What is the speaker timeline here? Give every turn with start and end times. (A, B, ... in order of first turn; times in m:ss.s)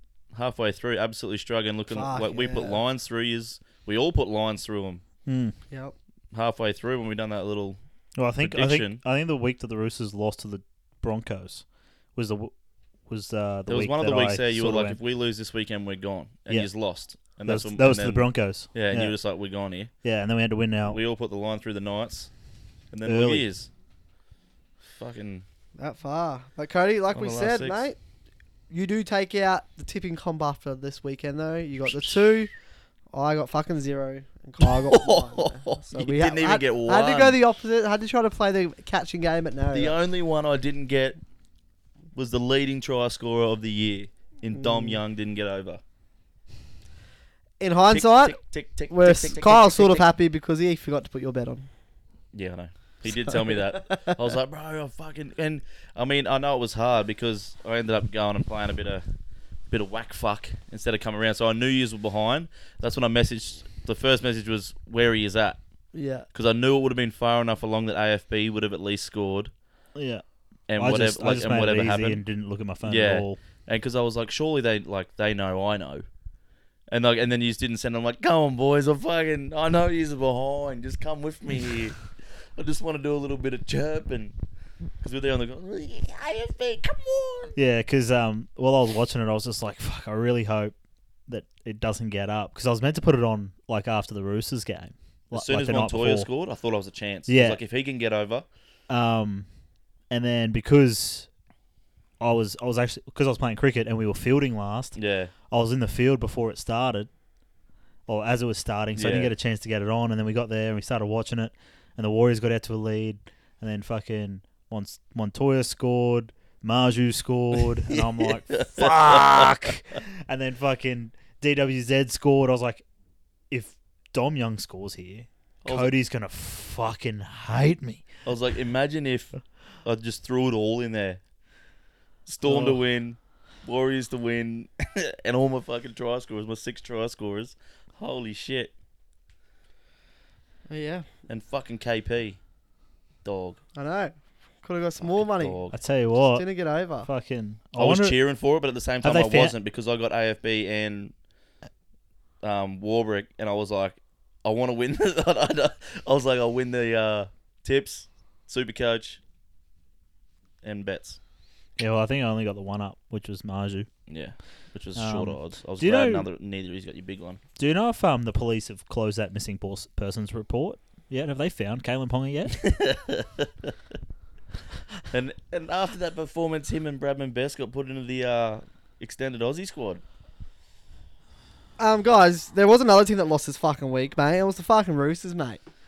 0:00.3-0:05.0 A
0:01.9-0:02.8 B
0:05.3-0:05.6 C
0:06.3-0:07.8 A
0:08.2-0:11.6 C
0:08.4-0:09.0 A
0:12.2-0:12.5 C
0:13.1-0:15.0 C
0:13.7-0:19.9 A
0:17.4-0:19.1 C
0:20.0-0:21.0 C
0:20.9-0:22.3 A
0:22.9-0:23.7 A
0:23.1-0:23.5 C
0:24.8-0:25.4 A
0:25.8-0:28.0 B
0:27.1-0:27.8 A
0:28.7-0:32.5 B
0:33.1-0:40.0 B
0:34.6-0:37.4 A
0:39.7-0:41.2 A
0:42.2-0:45.8 A
0:44.6-0:45.0 B
0:47.6-0:48.4 B
0:47.9-0:50.0 A
0:48.9-0:51.7 B
0:52.3-0:59.0 A
0:53.3-0:54.2 B
0:59.7-1:05.6 A
1:05.9-1:06.3 B
1:06.3-1:09.5 A
1:10.0-1:10.2 C
1:10.7-1:12.2 A
1:10.8-1:13.4 C
1:12.8-1:16.0 A
1:16.9-1:24.3 A
1:25.0-1:27.6 A
1:27.6-1:30.8 C
1:31.3-1:36.3 C
1:35.3-1:38.5 A
1:37.3-1:37.6 C
1:38.9-1:39.5 C
1:40.1-1:41.3 C
1:42.2-1:45.0 C
1:45.0-1:45.3 A
1:45.5-1:47.1 C
1:48.1-2:02.8 C
1:49.0-1:49.3 A
1:57.9-1:59.7 A
2:03.5-2:08.1 C
2:05.6-2:05.9 A
2:08.3-2:11.2 A
2:12.3-2:18.7 A
2:12.5-2:12.8 C
2:20.7-2:21.0 B
2:21.3-2:22.4 A
2:23.2-2:23.6 A
2:23.8-2:25.6 B
2:25.0-2:25.8 A
2:25.7-2:26.5 C
2:26.3-2:27.1 B
2:27.0-2:28.2 C
2:27.8-2:31.1 A
2:29.0-2:29.6 C
2:32.4-2:39.2 A
2:40.6-2:41.2 A
2:41.8-2:43.9 C
2:44.1-2:47.4 A
2:45.0-2:46.3 C
2:47.6-2:52.6 C
2:52.5-2:53.7 A
2:55.1-3:00.0 A
3:01.8-3:05.6 B